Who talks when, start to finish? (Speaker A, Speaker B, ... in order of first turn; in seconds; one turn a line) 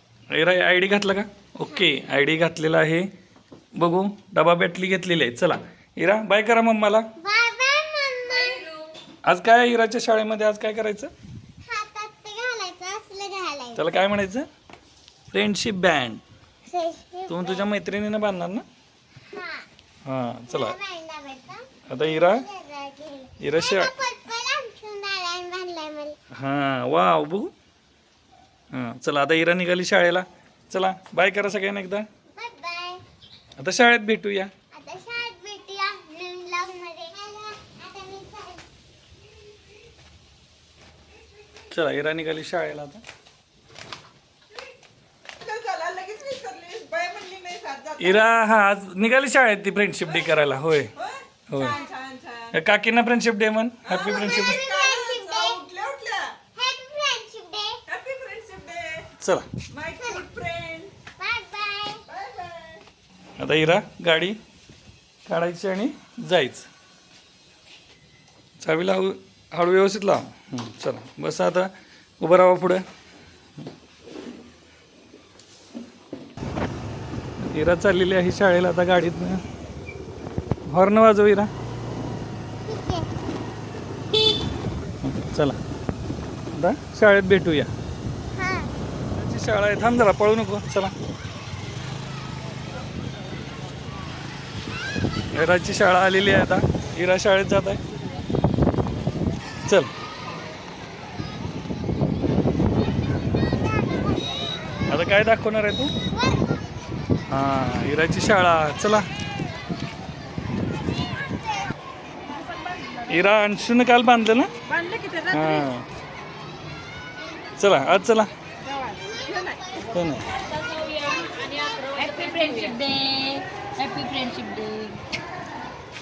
Speaker A: 0.3-3.1
Speaker A: 3.8-7.1
Speaker B: 7.2-8.6
Speaker A: 9.2-11.1
Speaker B: 11.6-13.9
Speaker A: 13.8-14.5
Speaker A: 15.3-16.2
Speaker B: 16.6-17.4
Speaker A: 17.3-18.6
Speaker B: 19.3-19.6
Speaker A: 20.1-20.8
Speaker B: 20.5-26.2
Speaker A: 21.9-22.4
Speaker A: 23.4-23.9
Speaker A: 26.3-27.5
Speaker A: 28.7-32.1
Speaker B: 32.3-33.0
Speaker A: 33.6-34.5
Speaker B: 34.7-38.6
Speaker A: 41.7-43.0
Speaker C: 45.4-48.1
Speaker A: 48.0-50.9
Speaker A: 51.5-51.8
Speaker B: 51.6-51.9
Speaker C: 51.7-52.5
Speaker A: 52.5-54.6
Speaker C: 53.9-56.4
Speaker B: 54.4-55.6
Speaker B: 56.5-57.8
Speaker C: 57.9-59.1
Speaker A: 59.2-59.5
Speaker C: 59.7-60.9
Speaker B: 60.0-60.2
Speaker B: 61.1-62.0
Speaker C: 62.1-62.8
Speaker A: 63.4-64.4
Speaker A: 65.3-66.7
Speaker A: 68.6-72.8
Speaker A: 77.4-79.4
Speaker A: 80.7-81.5
Speaker B: 82.6-83.1
Speaker A: 85.0-85.6
Speaker A: 86.5-87.7
Speaker B: 88.3-88.7
Speaker A: 89.1-90.9
Speaker A: 95.3-97.8
Speaker B: 103.9-104.7
Speaker A: 104.9-105.9
Speaker B: 106.1-106.6
Speaker A: 107.3-109.1
Speaker A: 113.1-114.5
Speaker C: 114.7-115.5
Speaker A: 115.3-115.8
Speaker A: 117.6-118.3
Speaker C: 118.7-119.6
Speaker A: 119.9-120.3
Speaker D: 120.6-125.0
Speaker C: 122.0-122.8